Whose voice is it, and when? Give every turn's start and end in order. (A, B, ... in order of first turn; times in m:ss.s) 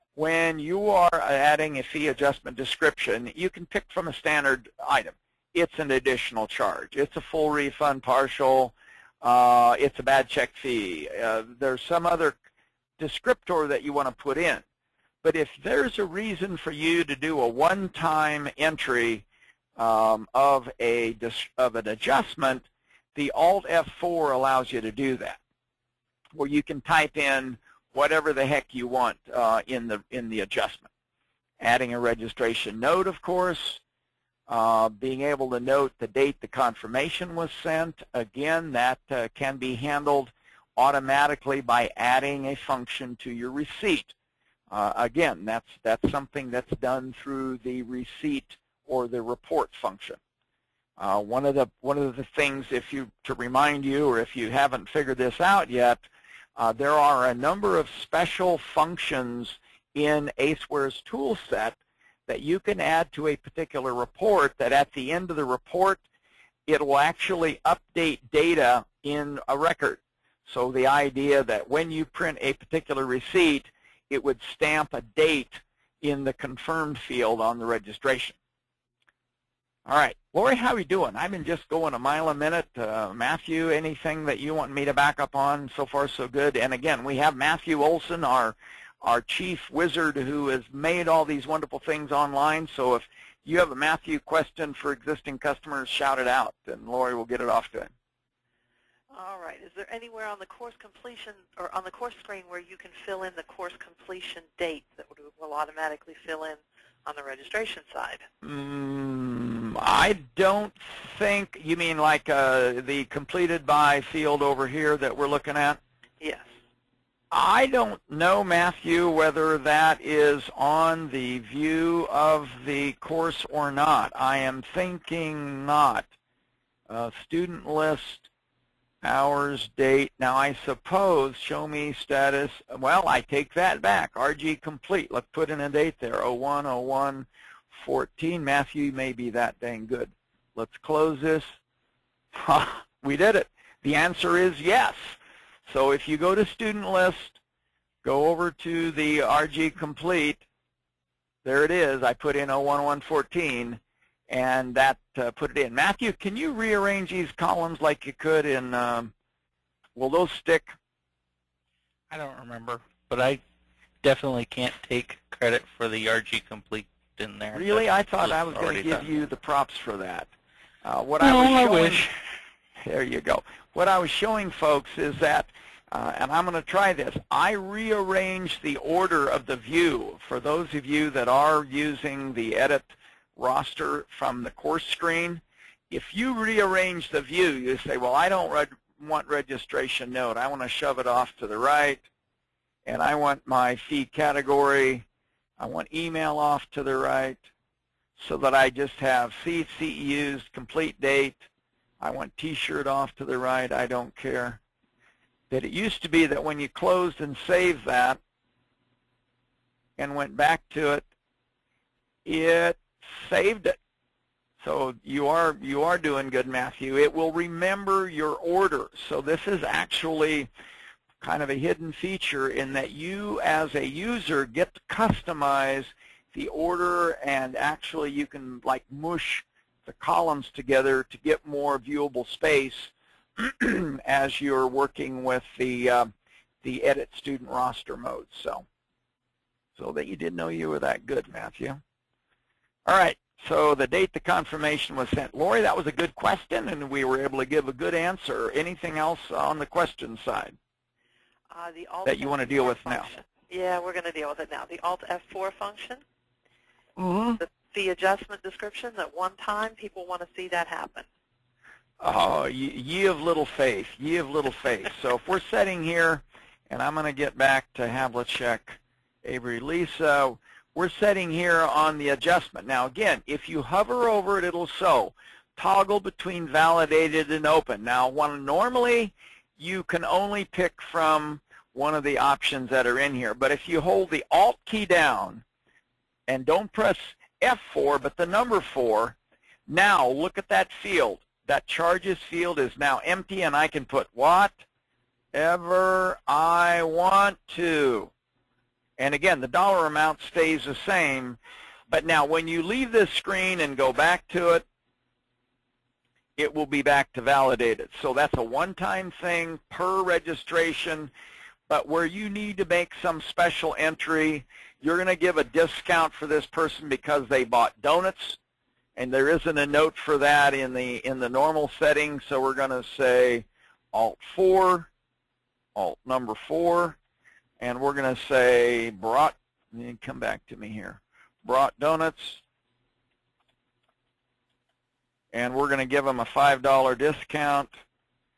0:00.2-0:12.4 A
0:13.0-0:14.6 A
0:15.2-0:19.2 A
0:19.8-0:25.4 A
0:26.3-0:30.9 A
0:31.6-0:33.8 A
0:34.5-0:44.1 A
0:44.7-0:50.2 A
0:51.0-0:56.0 A
0:56.6-1:06.0 A
1:06.7-1:18.4 A
1:19.8-1:37.9 A
1:39.1-1:48.2 B
1:48.4-1:55.8 A
1:56.2-1:56.5 B
1:57.3-2:06.1 A
2:06.9-2:08.3 A
2:09.0-2:21.6 A
2:22.3-2:27.4 A
2:28.0-2:30.4 A
2:31.4-2:39.1 A
2:40.0-2:40.8 A
2:42.1-2:43.4 C
2:44.0-2:49.1 C
2:47.5-2:50.3 A
2:50.8-2:52.1 A
2:51.2-2:52.0 C
2:52.8-3:12.0 A
3:12.8-3:15.0 A
3:15.6-3:17.4 A
3:18.2-3:21.4 A
3:22.0-3:24.6 A
3:25.5-3:28.2 A
3:30.0-3:31.0 A
3:32.2-3:33.8 A
3:34.6-3:40.5 A
3:41.2-3:56.1 A
3:56.6-3:58.6 A
3:59.8-4:01.8 A
4:02.8-4:10.6 A
4:11.5-4:16.0 B
4:12.0-4:13.1 A
4:17.0-4:17.4 C
4:17.4-4:21.0 B
4:22.0-4:45.4 A
4:46.3-4:49.2 A
4:49.7-4:54.6 A
4:55.3-4:58.1 A
4:59.0-5:04.6 A
5:06.4-5:11.1 A
5:11.7-5:18.4 A
5:19.0-5:24.9 A
5:25.7-5:27.0 A
5:27.6-5:32.4 A
5:35.3-5:37.7 A